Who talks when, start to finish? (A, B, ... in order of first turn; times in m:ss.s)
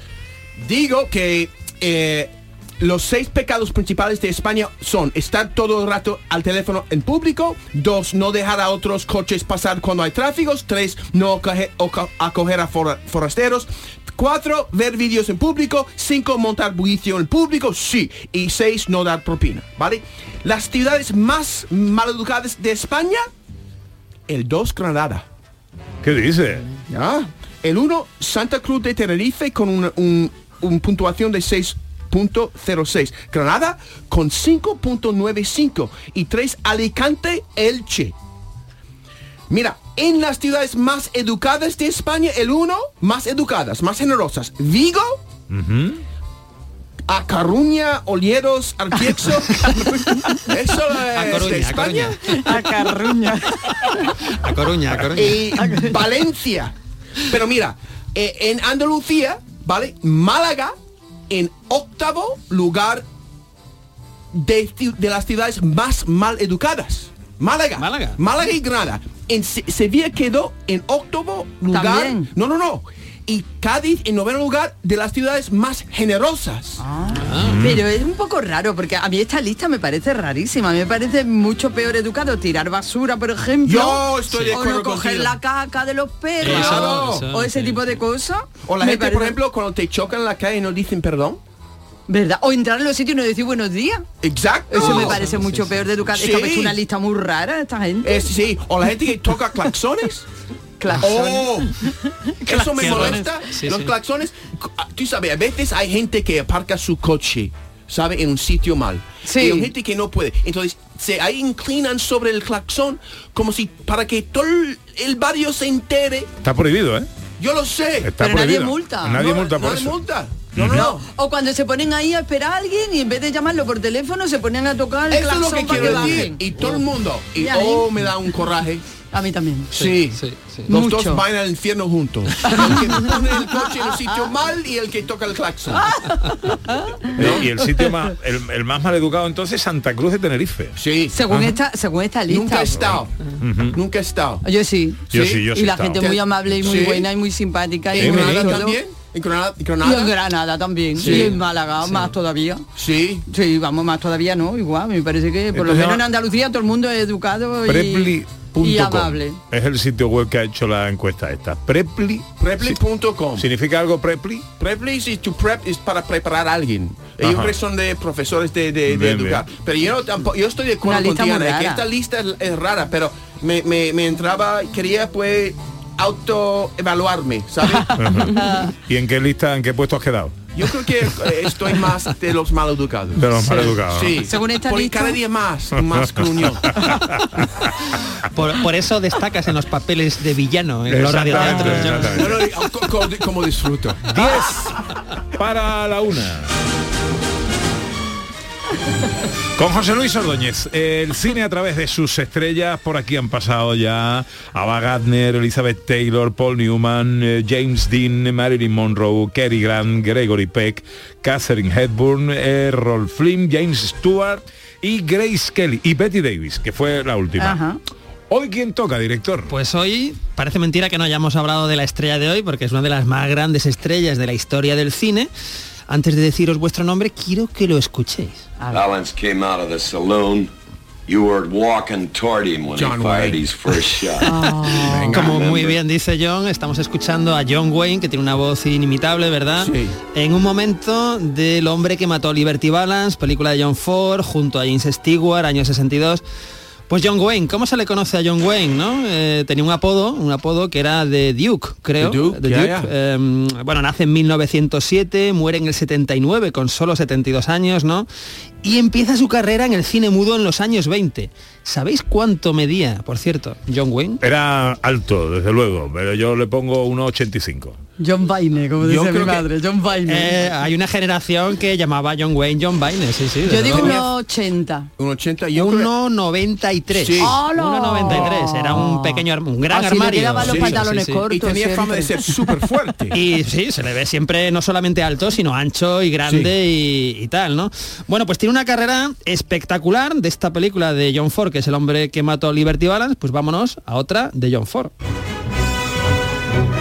0:00.6-0:23.2 A
0:24.3-0:25.2 A
0:26.0-0:26.7 B
0:26.9-0:38.1 A
0:39.5-0:45.2 A
0:45.5-0:46.0 B
0:47.1-0:49.8 A
0:50.3-0:52.3 A
0:51.1-0:52.4 C
0:52.3-0:54.1 D
0:54.3-0:55.4 C
0:55.2-0:56.7 A
0:55.6-0:56.0 D
0:57.2-1:00.7 A
1:01.3-1:03.0 A
1:04.3-1:16.8 A
1:07.8-1:08.2 C
1:11.7-1:12.3 D
1:16.8-1:29.4 D
1:17.2-1:17.7 C
1:17.4-1:17.8 B
1:23.6-1:25.4 A
1:24.3-1:24.6 C
1:26.4-1:27.3 A
1:26.4-1:28.0 C
1:28.6-1:31.4 A
1:32.1-1:34.1 D
1:34.2-1:35.3 A
1:34.7-1:38.3 D
1:34.8-1:35.9 C
1:36.1-1:36.8 A
1:38.0-1:40.3 A
1:40.8-1:43.4 D
1:41.0-1:41.8 A
1:42.4-1:56.3 A
1:42.8-1:43.9 C
1:49.2-1:49.7 D
1:56.4-1:57.1 B
1:57.4-1:58.2 A
1:58.0-2:00.0 B
1:58.2-1:59.3 D
1:59.1-2:01.1 A
2:00.5-2:00.9 B
2:00.7-2:08.3 D
2:05.1-2:08.8 A
2:09.1-2:09.8 D
2:09.7-2:10.2 A
2:09.8-2:10.7 C
2:10.7-2:11.3 D
2:10.7-2:15.9 A
2:12.4-2:14.3 D
2:15.7-2:17.4 D
2:17.2-2:17.5 A
2:17.2-2:20.8 B
2:20.8-2:21.2 A
2:21.1-2:23.0 D
2:21.3-2:21.6 B
2:22.3-2:23.1 A
2:22.8-2:23.8 B
2:23.7-2:24.4 A
2:24.4-2:28.8 D
2:25.1-2:27.1 A
2:25.1-2:26.9 B
2:27.9-2:30.2 A
2:28.0-2:28.5 B
2:29.8-2:32.7 D
2:31.0-2:31.4 A
2:31.0-2:31.4 C
2:32.8-2:33.2 A
2:33.3-2:39.4 D
2:35.5-2:36.1 B
2:37.7-2:42.8 B
2:42.4-2:43.5 A
2:43.4-2:44.5 B
2:44.6-2:58.2 A
2:47.2-2:47.6 B
2:48.9-2:49.5 B
2:50.8-2:51.9 D
2:57.6-2:58.7 D
2:58.0-2:58.3 B
2:58.9-3:00.5 B
3:00.5-3:06.9 A
3:03.2-3:04.1 B
3:03.4-3:03.7 C
3:04.2-3:05.2 D
3:05.8-3:06.1 B
3:06.7-3:07.5 B
3:08.3-3:12.4 C
3:10.9-3:12.4 B
3:11.3-3:14.5 A
3:14.1-3:14.7 B
3:15.4-3:16.5 B
3:19.6-3:37.6 B
3:37.4-3:37.8 D
3:38.3-3:39.5 B
3:39.5-3:45.3 C
3:45.9-3:48.5 C
3:48.7-3:50.5 E
3:51.1-3:54.3 E
3:52.7-3:54.0 A
3:54.2-3:55.2 D
3:54.6-4:06.2 C
3:54.8-3:55.5 A
3:55.3-3:55.8 E
3:59.6-3:59.9 A
4:06.9-4:18.1 C
4:12.0-4:12.9 A
4:18.6-4:24.2 C
4:24.2-4:27.8 B
4:28.0-4:30.5 D
4:28.8-4:29.5 A
4:30.1-4:34.0 C
4:33.5-4:34.9 D
4:33.6-4:34.2 A
4:35.0-4:35.9 A
4:35.6-4:41.2 C
4:36.9-4:37.4 A
4:37.2-4:42.6 D
4:40.3-4:43.2 A
4:43.1-4:54.9 C